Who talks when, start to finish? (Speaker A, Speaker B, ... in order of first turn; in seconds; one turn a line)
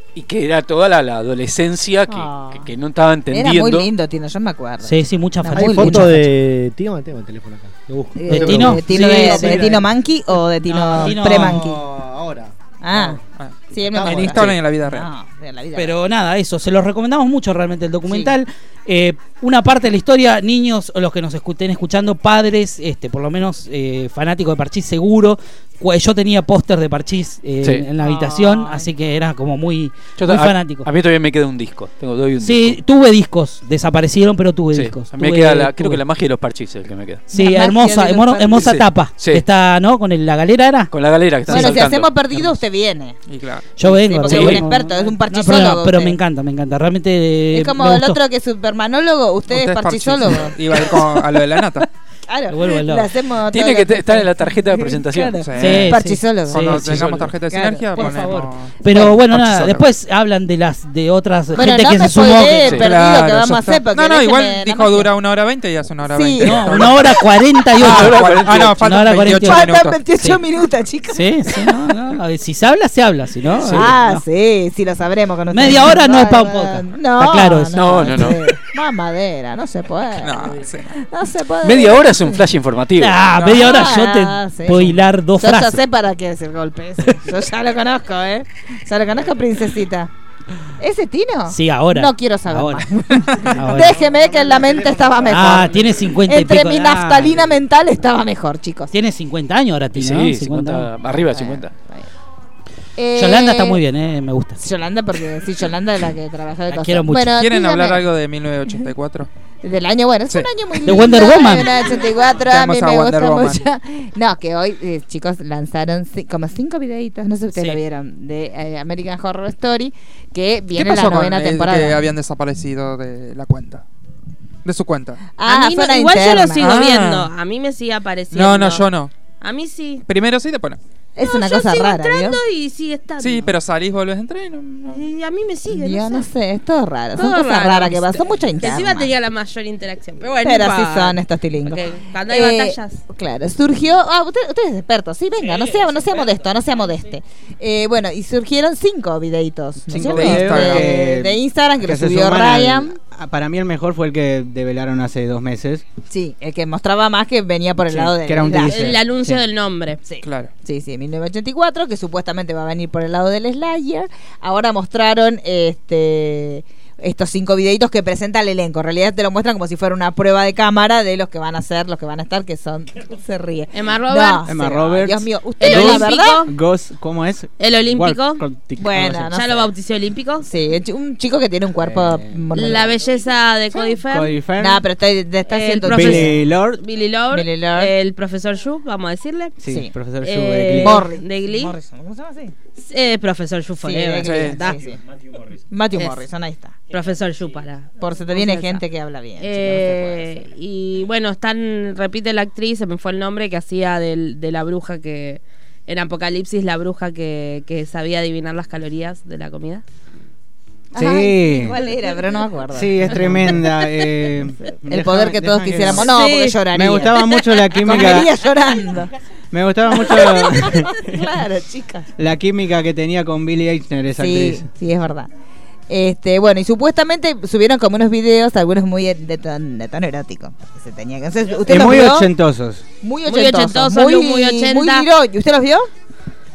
Speaker A: 0.1-3.9
Speaker B: 2.1-2.7
Speaker B: 3.3-6.1
Speaker C: 4.8-6.3
Speaker D: 5.5-9.5
Speaker B: 8.2-11.8
Speaker C: 8.3-9.9
Speaker C: 10.7-11.6
Speaker D: 11.2-13.2
Speaker B: 12.8-13.2
Speaker E: 13.4-15.1
Speaker B: 13.7-15.9
Speaker D: 13.9-14.5
Speaker C: 15.8-30.9
Speaker B: 18.1-18.3
Speaker B: 28.0-28.9
Speaker A: 30.2-32.8
Speaker C: 32.4-36.0
Speaker A: 34.7-37.3
Speaker B: 37.3-38.8
Speaker C: 37.3-40.9
Speaker A: 38.5-39.4
Speaker A: 40.9-42.1
Speaker C: 41.5-41.8
Speaker B: 41.5-43.1
Speaker E: 43.3-43.7
Speaker C: 43.8-48.2
Speaker B: 43.8-46.2
Speaker A: 44.3-44.6
Speaker B: 47.5-51.1
Speaker E: 49.5-51.9
Speaker B: 52.3-56.9
Speaker C: 52.5-53.1
Speaker A: 53.5-55.4
Speaker E: 55.4-56.0
Speaker C: 55.6-57.3
Speaker E: 56.5-58.7
Speaker B: 57.5-58.3
Speaker C: 58.0-62.8
Speaker B: 58.9-59.1
Speaker A: 59.3-59.9
Speaker B: 61.5-65.1
Speaker E: 62.8-70.0
Speaker B: 66.1-67.1
Speaker C: 66.4-70.4
Speaker A: 67.8-68.8
Speaker B: 69.4-71.8
Speaker C: 71.1-74.2
Speaker A: 73.5-73.9
Speaker B: 73.7-82.4
Speaker C: 75.5-78.3
Speaker A: 77.7-78.4
Speaker E: 80.2-80.9
Speaker A: 81.6-83.2
Speaker C: 83.0-85.8
Speaker E: 83.3-83.9
Speaker B: 83.5-90.1
Speaker B: 90.8-98.9
Speaker C: 91.5-92.9
Speaker C: 93.5-94.0
Speaker D: 94.1-95.2
Speaker C: 95.3-97.4
Speaker C: 98.9-100.9
Speaker A: 100.0-101.7
Speaker B: 101.3-102.1
Speaker B: 103.0-103.8
Speaker C: 103.2-104.6
Speaker B: 104.6-108.0
Speaker C: 106.7-107.4
Speaker E: 107.4-109.3
Speaker B: 109.6-122.0
Speaker C: 110.8-111.8
Speaker E: 111.9-113.7
Speaker E: 120.8-123.8
Speaker E: 124.7-125.3
Speaker B: 125.4-126.7
Speaker F: 125.5-128.9
Speaker E: 126.6-127.3
Speaker E: 128.3-129.1
Speaker F: 129.4-130.1
Speaker E: 130.1-130.8
Speaker B: 131.2-132.4
Speaker F: 131.2-133.5
Speaker E: 133.2-135.0
Speaker F: 134.9-136.3
Speaker B: 135.7-139.1
Speaker F: 137.2-143.0
Speaker B: 140.4-153.0
Speaker G: 149.9-155.8
Speaker E: 150.1-150.9
Speaker B: 156.1-159.0
Speaker G: 157.9-159.4
Speaker F: 158.6-160.0
Speaker B: 160.1-176.4
Speaker E: 160.2-160.5
Speaker F: 173.7-174.5
Speaker G: 174.5-179.3
Speaker F: 175.6-176.5
Speaker F: 177.6-178.4
Speaker B: 178.8-179.7
Speaker F: 179.3-180.5
Speaker B: 180.4-183.0
Speaker F: 182.5-184.4
Speaker G: 184.1-184.8
Speaker B: 184.6-186.4
Speaker F: 185.5-189.6
Speaker G: 185.9-186.8
Speaker B: 187.3-187.9
Speaker G: 189.6-191.1
Speaker B: 189.7-189.9
Speaker F: 190.2-191.7
Speaker B: 190.8-192.5
Speaker F: 192.8-194.9
Speaker B: 193.8-195.0
Speaker E: 194.2-194.6
Speaker B: 195.7-196.8
Speaker F: 195.9-196.2
Speaker F: 196.9-198.8
Speaker B: 198.0-200.5
Speaker F: 199.4-209.8
Speaker B: 210.9-213.7
Speaker G: 210.9-211.8
Speaker G: 212.7-218.4
Speaker B: 214.8-219.1
Speaker G: 219.5-221.3
Speaker B: 219.9-222.1
Speaker G: 222.2-224.7
Speaker B: 224.2-225.3
Speaker B: 225.9-232.3
Speaker G: 231.7-232.8
Speaker B: 233.0-235.9
Speaker F: 233.3-235.1